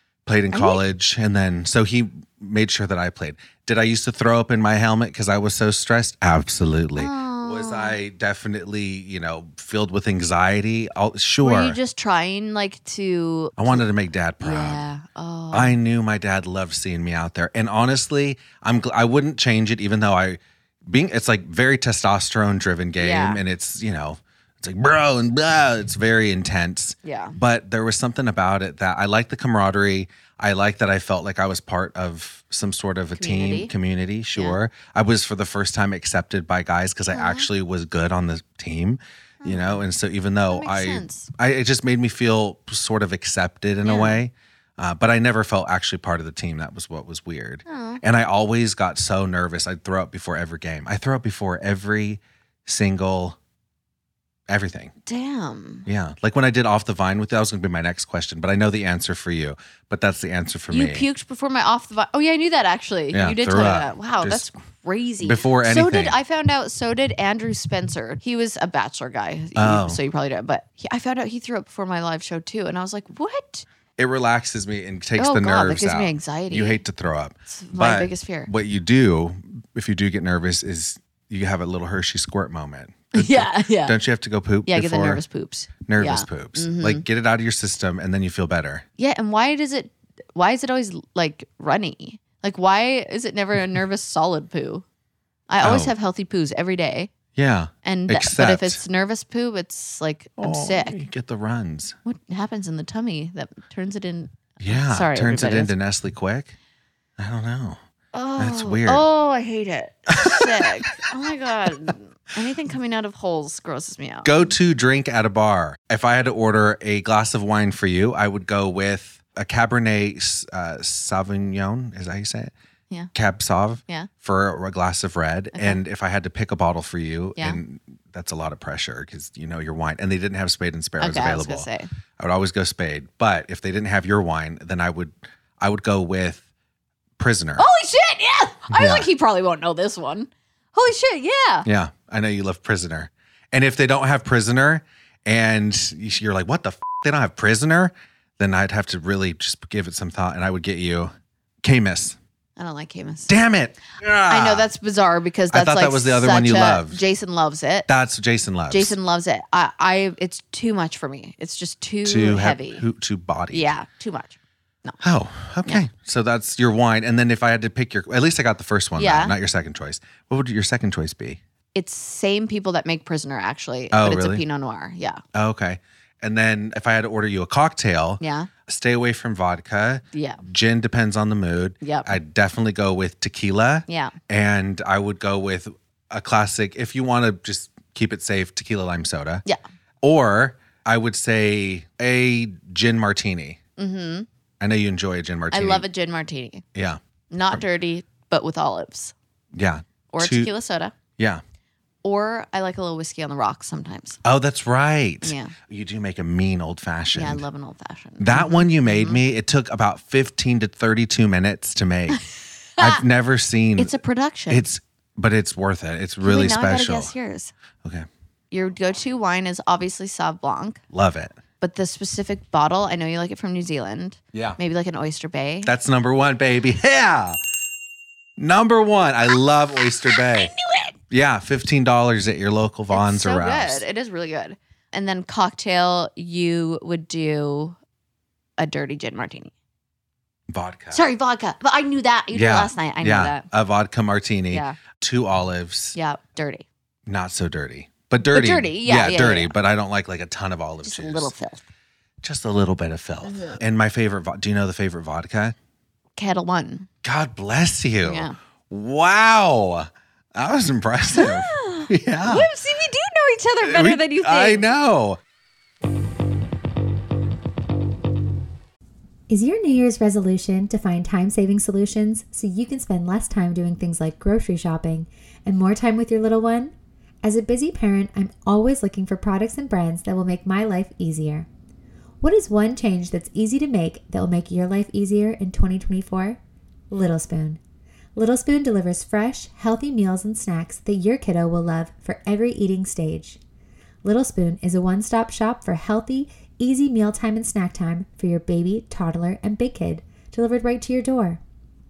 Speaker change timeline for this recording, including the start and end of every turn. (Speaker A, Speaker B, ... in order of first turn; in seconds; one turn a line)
Speaker A: 0.2-11.8
Speaker B: 0.5-0.8
Speaker B: 7.0-8.0
Speaker B: 11.4-13.8
Speaker A: 13.6-14.8
Speaker B: 14.4-15.8
Speaker A: 15.5-53.4
Speaker B: 23.0-23.4
Speaker B: 27.0-27.4
Speaker B: 33.1-33.7
Speaker B: 37.1-37.5
Speaker B: 39.4-39.9
Speaker B: 40.5-41.3
Speaker B: 43.8-44.2
Speaker B: 47.7-48.0
Speaker A: 54.5-54.9
Speaker B: 55.0-55.9
Speaker A: 55.9-61.1
Speaker B: 60.7-73.7
Speaker A: 63.1-64.5
Speaker A: 65.2-66.2
Speaker A: 69.6-70.0
Speaker A: 74.0-85.2
Speaker B: 75.2-76.8
Speaker B: 77.5-78.5
Speaker B: 83.1-84.0
Speaker B: 84.7-87.0
Speaker A: 85.8-88.8
Speaker B: 89.0-94.8
Speaker B: 95.5-97.1
Speaker A: 95.6-95.9
Speaker A: 97.4-98.8
Speaker B: 97.8-101.0
Speaker A: 100.4-102.0
Speaker B: 102.0-105.7
Speaker A: 104.6-106.5
Speaker A: 107.2-107.8
Speaker B: 108.1-114.5
Speaker A: 108.4-109.1
Speaker A: 110.2-110.7
Speaker A: 114.2-122.5
Speaker A: 123.1-136.4
Speaker B: 125.5-125.8
Speaker B: 131.0-131.9
Speaker A: 137.2-137.7
Speaker B: 137.6-141.7
Speaker A: 138.7-139.1
Speaker A: 141.7-152.2
Speaker B: 152.6-153.3
Speaker A: 153.3-154.7
Speaker B: 154.3-157.9
Speaker A: 155.5-157.0
Speaker A: 157.9-159.0
Speaker B: 158.7-162.8
Speaker A: 162.1-163.8
Speaker B: 163.5-165.0
Speaker A: 165.0-171.4
Speaker B: 169.0-169.3
Speaker B: 171.7-175.2
Speaker A: 173.9-174.4
Speaker A: 175.3-189.4
Speaker B: 178.2-178.5
Speaker B: 180.1-180.4
Speaker B: 181.8-182.1
Speaker B: 183.9-184.2
Speaker A: 190.0-193.6
Speaker B: 193.8-194.3
Speaker A: 194.6-195.9
Speaker B: 195.5-196.6
Speaker A: 196.8-197.6
Speaker B: 197.3-199.1
Speaker A: 199.5-200.5
Speaker B: 200.1-200.9
Speaker B: 202.0-204.2
Speaker A: 204.2-207.4
Speaker B: 205.2-205.6
Speaker B: 207.1-209.2
Speaker A: 208.2-212.2
Speaker B: 212.8-213.0
Speaker A: 212.8-217.1
Speaker B: 213.8-214.7
Speaker B: 216.2-217.5
Speaker B: 218.5-220.8
Speaker A: 220.9-221.4
Speaker B: 221.6-225.7
Speaker A: 225.7-227.4
Speaker A: 228.4-230.5
Speaker B: 229.8-230.9
Speaker A: 231.1-233.8
Speaker B: 232.9-237.8
Speaker B: 238.6-239.5
Speaker A: 240.5-241.1
Speaker B: 240.9-243.5
Speaker A: 242.3-246.0
Speaker B: 244.5-244.8
Speaker B: 245.9-246.7
Speaker A: 247.1-251.3
Speaker B: 248.3-249.5
Speaker B: 250.8-251.7
Speaker A: 252.2-255.6
Speaker B: 253.2-253.6
Speaker B: 256.2-256.9
Speaker A: 257.0-262.5
Speaker B: 258.0-258.4
Speaker B: 261.1-264.7
Speaker A: 263.6-265.2
Speaker C: 269.3-281.5
Speaker C: 282.2-286.4
Speaker C: 286.9-287.6
Speaker C: 288.1-293.4
Speaker C: 294.0-301.4